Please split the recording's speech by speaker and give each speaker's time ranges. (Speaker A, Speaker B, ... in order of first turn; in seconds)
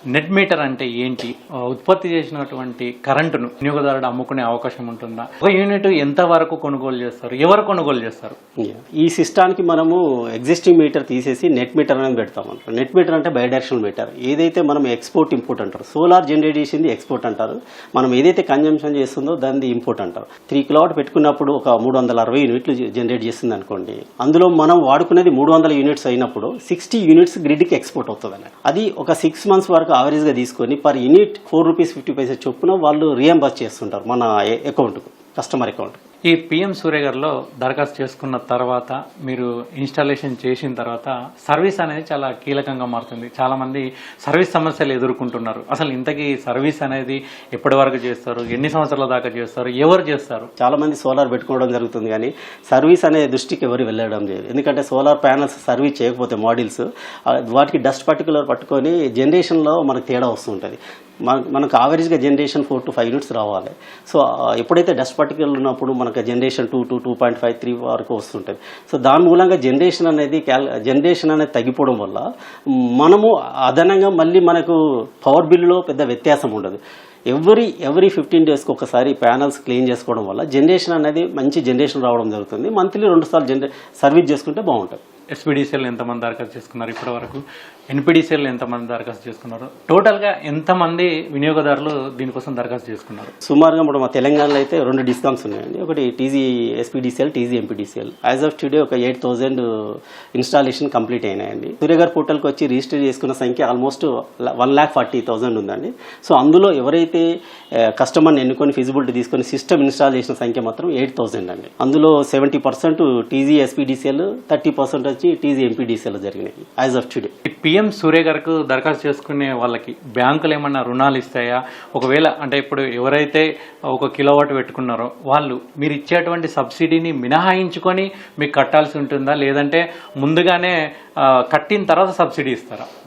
Speaker A: 0.1-8.4, 36.3-50.5, 85.3-93.3, 117.5-132.9
Speaker B: 8.6-36.0, 50.6-72.2, 72.7-85.0, 93.4-117.3